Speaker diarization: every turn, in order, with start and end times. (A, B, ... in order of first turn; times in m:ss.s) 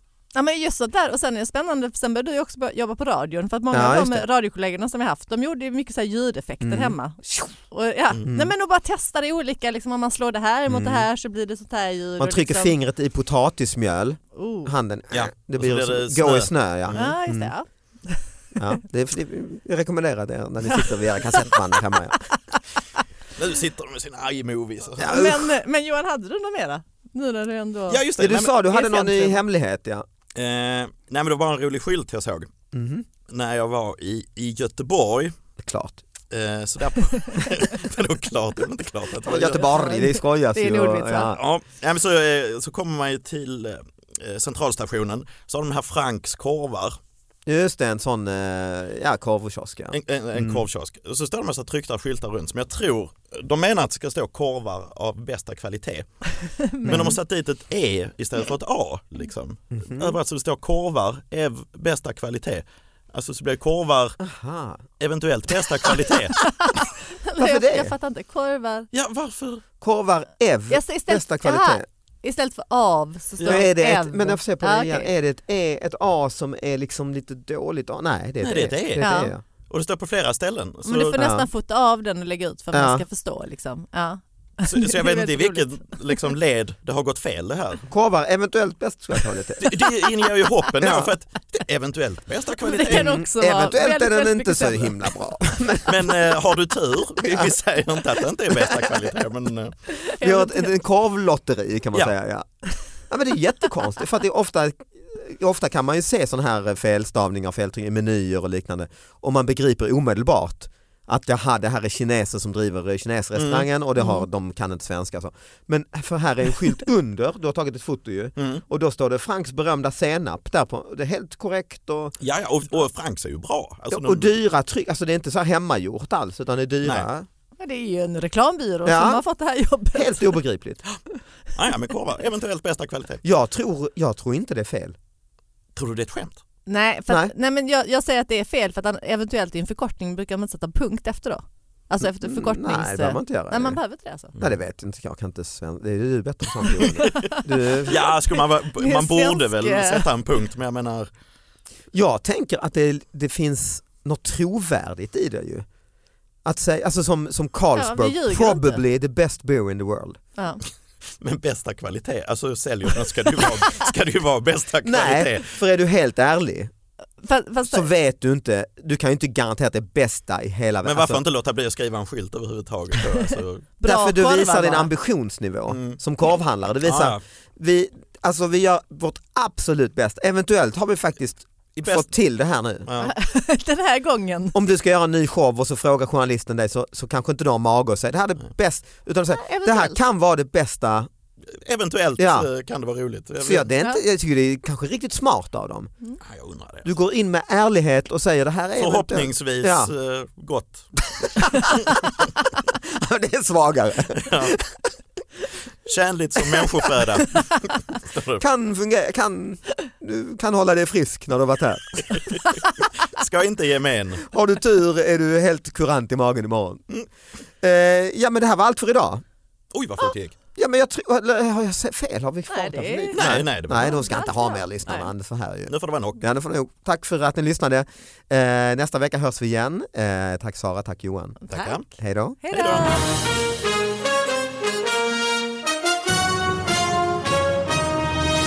0:00.3-0:12.8 A
0:03.7-0:04.3 B
0:06.6-0:07.5 B
0:10.7-0:11.1 B
0:12.2-0:17.5 B
0:14.3-0:14.7 A
0:15.1-0:17.1 C
0:16.9-0:18.2 A
0:18.6-0:22.2 B
0:23.4-0:25.3 C
0:25.0-0:25.4 B
0:25.0-0:28.0 A
0:27.9-0:28.6 C
0:28.2-0:30.1 B
0:28.7-0:29.4 A
0:30.4-0:32.5 C
0:32.7-0:33.1 B
0:33.3-0:35.4 C
0:35.6-0:36.0 B
0:36.3-0:39.8 C
0:39.3-0:41.4 B
0:39.7-0:41.4 A
0:41.3-0:47.0 C
0:47.5-0:50.6 B
0:49.9-0:56.1 C
0:56.6-0:57.2 A
0:56.8-0:57.2 B
0:56.8-1:04.2 C
0:59.8-1:00.2 B
1:04.2-1:04.8 B
1:05.0-1:06.4 C
1:06.4-1:08.9 A
1:07.4-1:08.0 B
1:08.9-1:09.6 C
1:09.8-1:11.8 B
1:10.7-1:15.1 A
1:13.4-1:19.4 B
1:18.4-1:21.2 C
1:19.0-1:19.3 A
1:20.8-1:26.2 A
1:21.1-1:21.5 B
1:22.7-1:23.0 B
1:24.7-1:27.8 C
1:27.9-1:29.8 B
1:29.6-1:33.2 C
1:30.8-1:31.1 B
1:32.6-1:35.0 A
1:32.8-1:36.1 B
1:35.9-1:39.8 C
1:37.2-1:37.5 B
1:39.9-1:40.7 A
1:40.2-2:02.2 B
1:53.4-1:53.7 C
1:54.0-1:54.3 A
1:58.4-1:58.6 C
2:02.2-2:04.4 C
2:03.9-2:07.3 B
2:07.6-2:10.4 A
2:08.8-2:09.2 B
2:09.9-2:10.8 B
2:11.6-2:13.2 C
2:13.2-2:15.0 B
2:15.8-2:16.4 C
2:16.7-2:24.4 A
2:22.0-2:23.8 B
2:24.4-2:28.0 B
2:27.0-2:27.9 A
2:27.8-2:31.1 C
2:28.7-2:30.0 A
2:31.9-2:35.7 B
2:36.4-2:40.2 B
2:37.8-2:38.8 A
2:41.2-2:45.6 C
2:44.8-2:46.7 B
2:47.2-2:47.9 A
2:47.7-2:51.2 B
2:50.8-2:53.7 C
2:53.8-2:54.9 A
2:53.8-3:02.9 B
2:55.7-2:56.0 C
2:56.8-2:57.2 C
3:01.8-3:02.1 C
3:02.9-3:03.2 C
3:03.0-3:04.6 A
3:04.5-3:11.1 B
3:09.3-3:10.0 A
3:11.5-3:13.7 C
3:12.2-3:12.5 B
3:13.4-3:15.9 B
3:16.2-3:16.9 C
3:16.8-3:19.9 B
3:18.8-3:21.9 C
3:21.2-3:24.8 B
3:24.1-3:24.6 C
3:25.8-3:28.4 C
3:28.4-3:32.2 B
3:32.1-3:34.3 C
3:34.3-3:36.8 B
3:37.6-3:39.2 B
3:39.7-3:40.4 C
3:40.6-3:52.4 B
3:42.5-3:45.1 A
3:43.2-3:44.0 C
3:45.7-3:46.2 C
3:51.5-3:51.8 A
3:51.5-3:51.8 C
3:52.4-3:53.1 A
3:52.5-3:52.9 C